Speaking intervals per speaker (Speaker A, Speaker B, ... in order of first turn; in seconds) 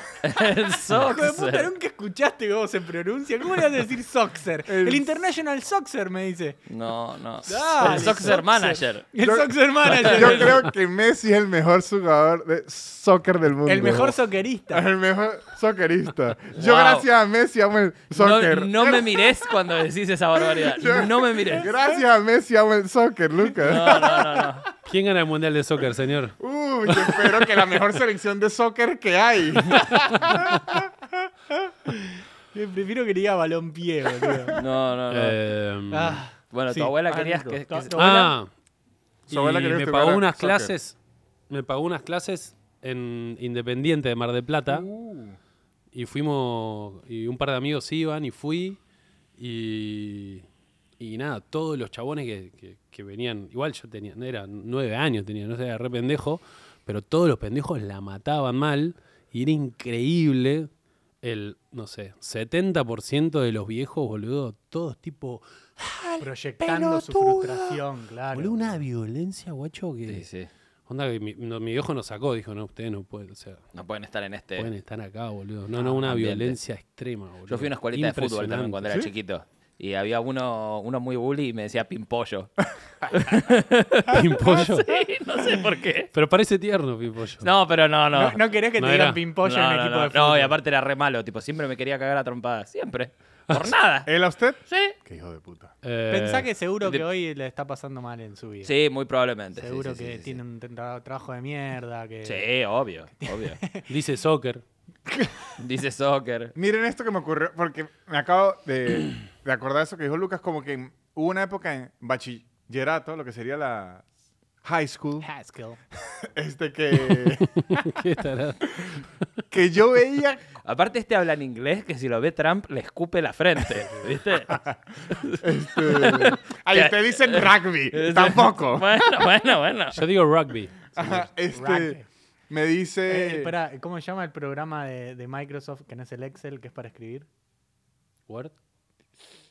Speaker A: 0.2-1.7, 6.7-9.1, 10.0-10.4, 16.5-17.1, 18.1-21.7, 23.6-24.6, 34.5-35.4, 36.5-38.3, 70.1-70.5, 73.7-74.7, 76.0-76.6, 77.5-86.1, 87.4-88.4, 89.4-94.1, 94.7-95.0, 98.6-100.4, 102.2-103.6, 105.6-106.5, 120.6-130.0
Speaker B: 0.9-6.6, 7.5-10.7, 13.6-14.8, 31.9-34.6, 35.9-38.3, 66.2-68.8, 88.1-90.5, 96.1-98.7, 99.5-102.5, 103.2-103.9, 115.2-115.8, 131.5-132.1, 133.1-137.3
Speaker C: 4.7-5.2, 7.8-8.1, 9.2-14.2, 14.7-19.4, 20.4-24.4, 26.4-30.9, 34.3-34.5, 37.1-37.6, 39.3-40.7, 44.7-45.4, 94.0-95.7, 106.5-114.0, 114.6-115.3, 116.2-117.5, 119.5-120.4, 124.5-124.8, 125.4-128.8, 130.9-132.0, 132.5-133.5
Speaker D: 24.9-26.4, 26.9-27.4, 29.8-30.4, 35.1-36.2, 38.0-38.5, 39.3-41.0, 41.5-44.9, 45.9-48.8, 49.4-50.4, 51.0-60.7, 61.2-67.8, 68.3-70.2, 70.9-73.6, 74.5-79.0, 84.1-84.9, 86.1-87.5, 88.8-89.2, 95.8-96.5, 103.9-104.6, 117.0-118.7, 129.9-131.2, 138.3-138.5